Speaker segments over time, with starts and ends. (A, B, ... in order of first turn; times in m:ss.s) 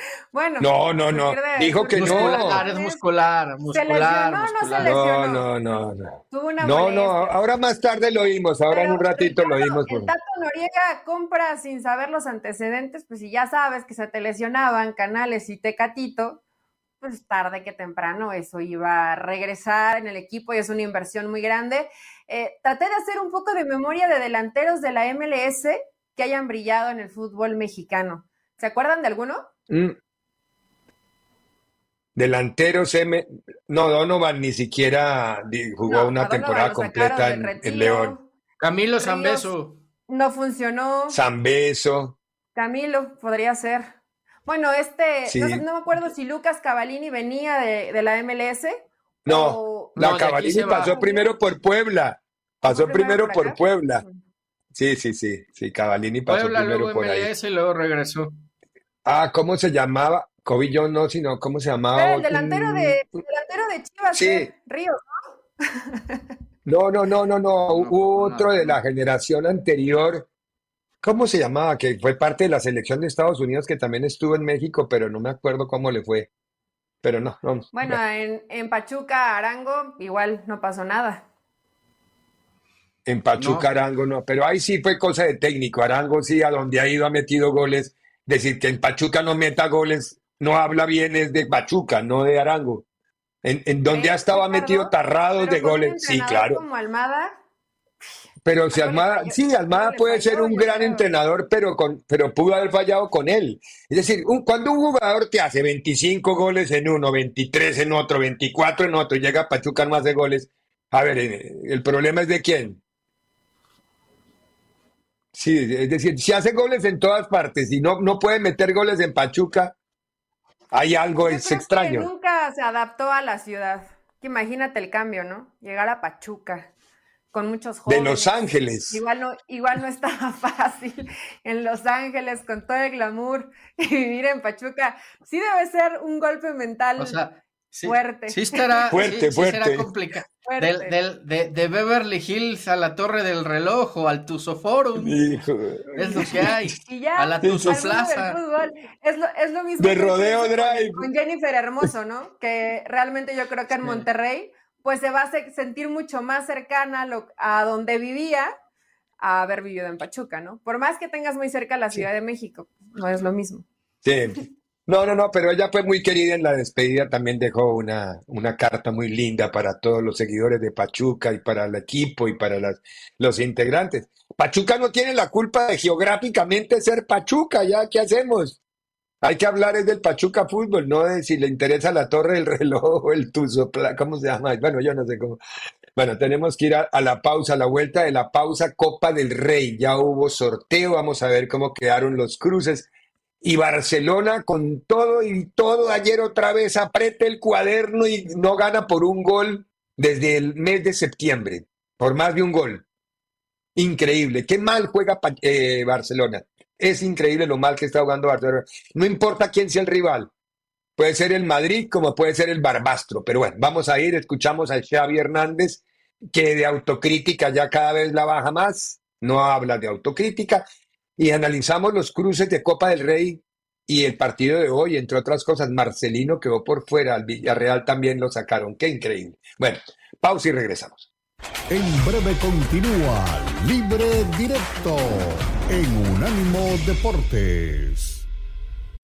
0:00.3-0:03.0 A
0:00.6-0:02.6 B
0:02.0-0:05.0 C
0:03.7-0:05.5 A
0:04.8-0:10.1 B
0:06.3-0:07.4 A
0:08.7-0:16.4 A
0:17.0-0:29.5 A
0:29.7-0:30.0 B
0:32.2-0:38.2 B
0:35.9-0:38.2 A
0:38.6-0:39.8 C
0:39.0-0:39.5 A
0:40.1-0:41.2 A
0:41.1-0:42.2 B
0:42.6-0:44.0 A
0:44.5-0:50.0 A
0:45.3-0:45.6 B
0:49.3-0:54.0 B
0:50.0-0:51.0 C
0:50.9-0:51.2 A
0:52.6-0:54.2 A
0:54.7-0:57.3 B
0:56.3-0:58.3 C
0:59.0-1:03.0 B
1:02.0-1:05.0 A
1:04.1-1:04.5 B
1:05.8-1:06.2 A
1:06.6-1:10.3 B
1:07.7-1:08.8 C
1:11.0-1:16.3 B
1:17.0-1:18.0 B
1:17.7-1:21.2 A
1:23.1-1:32.8 B
1:23.4-1:23.7 C
1:33.4-1:36.6 B
1:33.9-1:37.3 A
1:38.4-1:52.8 B
1:38.7-1:41.1 A
1:55.3-1:59.7 B
2:00.7-2:02.1 B
2:01.2-2:06.7 A
2:07.3-2:08.4 A
2:07.9-2:09.0 B
2:08.9-2:17.2 A
2:17.0-2:25.2 C
2:17.8-2:18.9 A
2:18.9-2:19.9 B
2:20.4-2:21.0 A
2:25.0-2:26.5 B
2:26.0-2:28.4 C
2:26.8-2:38.5 A
2:27.4-2:27.8 B
2:29.8-2:31.1 B
2:39.2-2:43.6 A
2:44.0-2:58.6 B
2:59.2-3:05.4 B
3:06.0-3:12.9 B
3:13.4-3:22.9 B
3:23.8-3:30.3 B
3:31.0-3:40.6 B
3:41.2-3:51.1 B
3:51.7-3:58.3 D